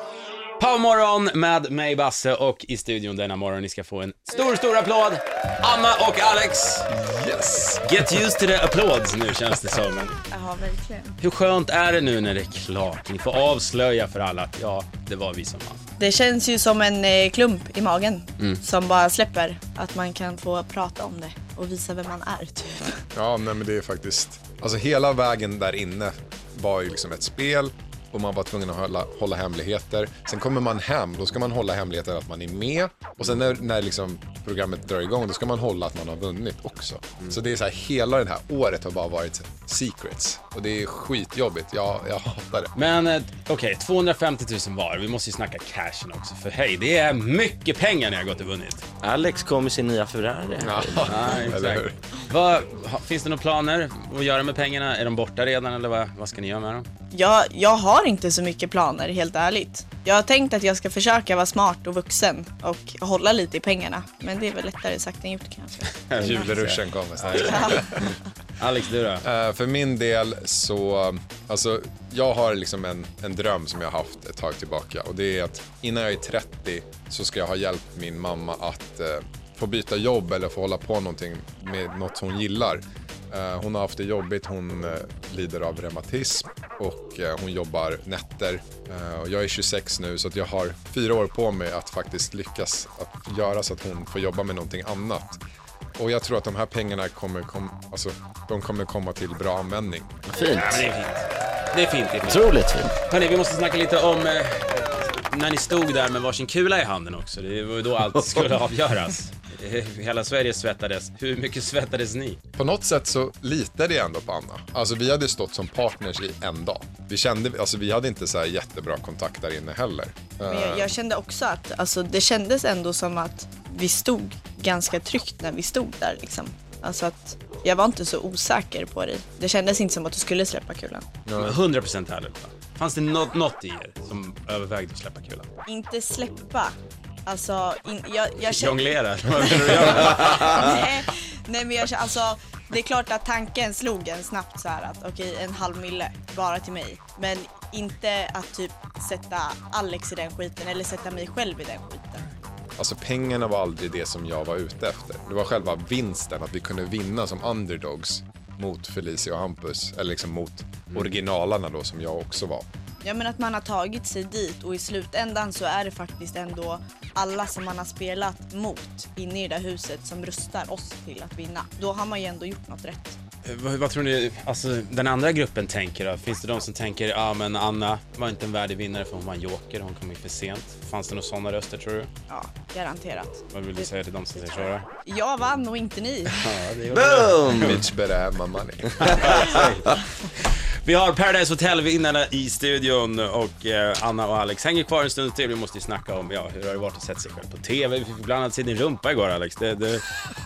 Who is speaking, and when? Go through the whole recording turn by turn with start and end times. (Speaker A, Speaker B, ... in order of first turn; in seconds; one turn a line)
Speaker A: 0.6-6.9
Speaker B: 6.9-7.9
Speaker A: 7.8-10.2
Speaker C: 10.3-11.2
Speaker A: 11.2-15.8
Speaker C: 16.0-23.0
Speaker B: 23.1-42.7
Speaker A: 42.8-48.8
Speaker D: 49.0-51.3
Speaker B: 50.6-51.9
Speaker A: 51.1-56.9
Speaker C: 57.1-66.4
Speaker A: 65.9-68.0
Speaker B: 66.2-68.1
Speaker C: 67.3-68.0
Speaker A: 68.6-69.2
Speaker B: 69.2-95.4
Speaker B: 96.0-100.2
Speaker D: 100.3-100.9
Speaker A: 100.4-112.4
Speaker D: 102.2-102.9
Speaker B: 112.6-120.9
Speaker C: 120.5-131.1
Speaker B: 131.2-131.6
Speaker A: 131.4-135.5
Speaker C: 135.7-136.7
Speaker C: 137.2-138.8
Speaker A: 138.4-140.8
Speaker C: 139.4-152.3
Speaker B: 152.8-162.7
Speaker C: 163.0-173.2
Speaker A: 173.4-182.1
Speaker C: 182.3-183.9
Speaker A: 183.5-184.9
Speaker C: 184.5-186.4
Speaker A: 186.4-187.8
Speaker D: 186.9-187.8
Speaker B: 187.5-189.6
Speaker A: 189.0-200.1